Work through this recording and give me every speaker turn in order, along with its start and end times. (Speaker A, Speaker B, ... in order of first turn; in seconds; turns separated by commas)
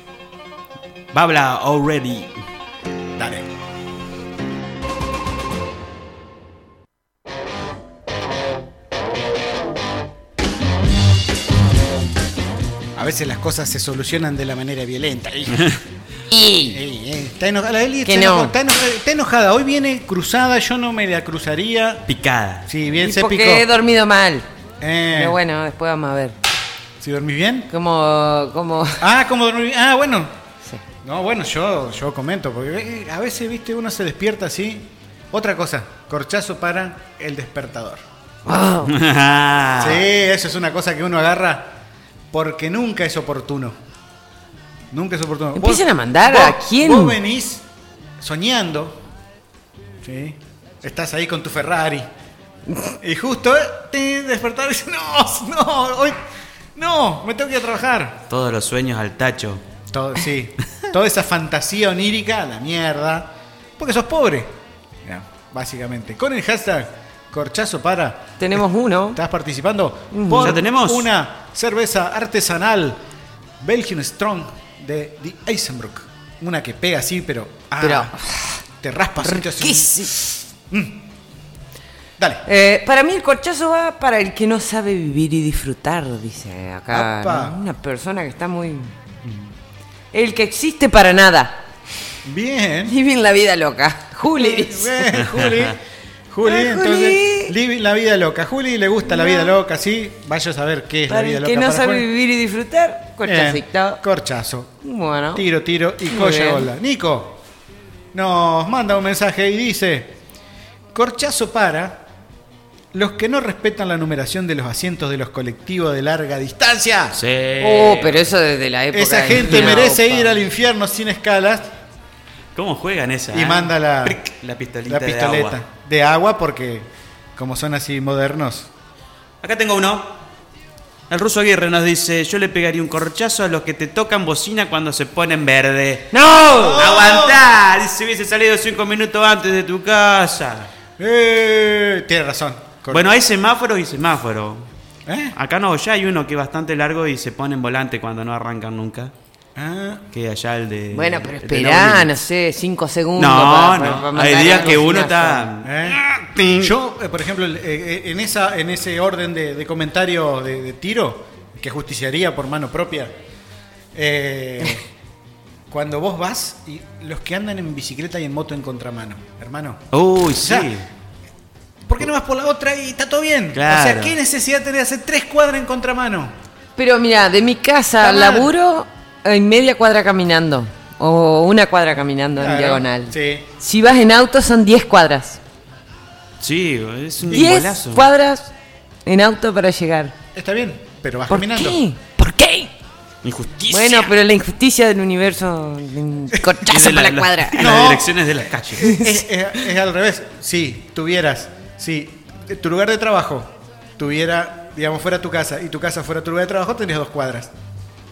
Speaker A: 1.1-2.4, Speaker B: 3.2-3.5, Speaker B: 13.0-15.8, Speaker C: 16.3-16.8, Speaker B: 16.7-22.1, Speaker C: 18.1-18.5, Speaker A: 22.1-22.7, Speaker B: 22.7-23.7, Speaker C: 23.0-24.5, Speaker B: 24.8-25.4, Speaker C: 25.1-26.4, Speaker B: 27.0-27.7, Speaker C: 27.7-29.0, Speaker B: 29.0-30.3, Speaker B: 31.0-38.0, Speaker C: 38.5-38.9, Speaker A: 38.9-40.0, Speaker B: 39.8-41.8, Speaker B: 42.3-43.8, Speaker B: 44.9-47.6, Speaker C: 45.5-47.2, Speaker B: 48.2-49.0, Speaker B: 50.0-52.1, Speaker B: 53.0-56.2, Speaker B: 56.8-58.2, Speaker A: 58.3-59.6, Speaker B: 59.9-68.6, Speaker C: 68.4-69.2, Speaker B: 69.1-73.0, Speaker C: 70.1-70.6, Speaker A: 70.4-71.1, Speaker B: 73.6-78.2, Speaker C: 77.8-78.6, Speaker B: 78.8-81.1, Speaker C: 79.2-80.1, Speaker B: 82.2-82.4, Speaker C: 82.5-88.9, Speaker B: 86.9-87.6, Speaker C: 90.1-91.6, Speaker B: 92.2-93.0, Speaker C: 92.9-95.0, Speaker B: 94.3-102.1, Speaker A: 95.2-95.7, Speaker C: 96.4-97.5, Speaker C: 99.1-99.5, Speaker C: 101.1-104.0, Speaker B: 103.2-104.7, Speaker C: 104.8-105.5, Speaker B: 105.3-107.4, Speaker C: 106.1-106.7, Speaker B: 108.1-110.2, Speaker B: 110.9-112.1, Speaker B: 112.9-117.2, Speaker A: 117.1-118.2, Speaker C: 117.6-120.4, Speaker B: 118.9-121.7, Speaker A: 122.6-125.6, Speaker B: 123.3-124.2, Speaker B: 124.9-128.7, Speaker A: 129.4-130.2, Speaker A: 131.1-136.1, Speaker C: 136.1-136.8, Speaker B: 136.4-137.4, Speaker A: 136.8-140.7, Speaker B: 141.0-143.1, Speaker A: 142.9-144.7, Speaker B: 145.1-145.4, Speaker A: 145.3-149.1, Speaker B: 149.6-150.1, Speaker A: 150.1-152.1, Speaker C: 150.9-155.5, Speaker A: 153.2-156.7, Speaker B: 155.6-156.0, Speaker B: 156.6-163.1, Speaker B: 163.9-164.8, Speaker B: 165.7-169.8, Speaker A: 169.9-170.8, Speaker B: 170.4-170.7, Speaker B: 171.9-176.4, Speaker A: 173.5-174.1, Speaker C: 176.8-185.4, Speaker B: 178.0-178.5, Speaker B: 182.4-183.5, Speaker A: 186.4-188.1, Speaker C: 187.3-188.5, Speaker C: 189.1-190.2, Speaker B: 190.3-191.8, Speaker C: 191.3-192.7, Speaker A: 193.2-194.1, Speaker C: 193.7-197.8, Speaker A: 196.7-198.9, Speaker B: 197.6-207.5, Speaker C: 198.8-199.1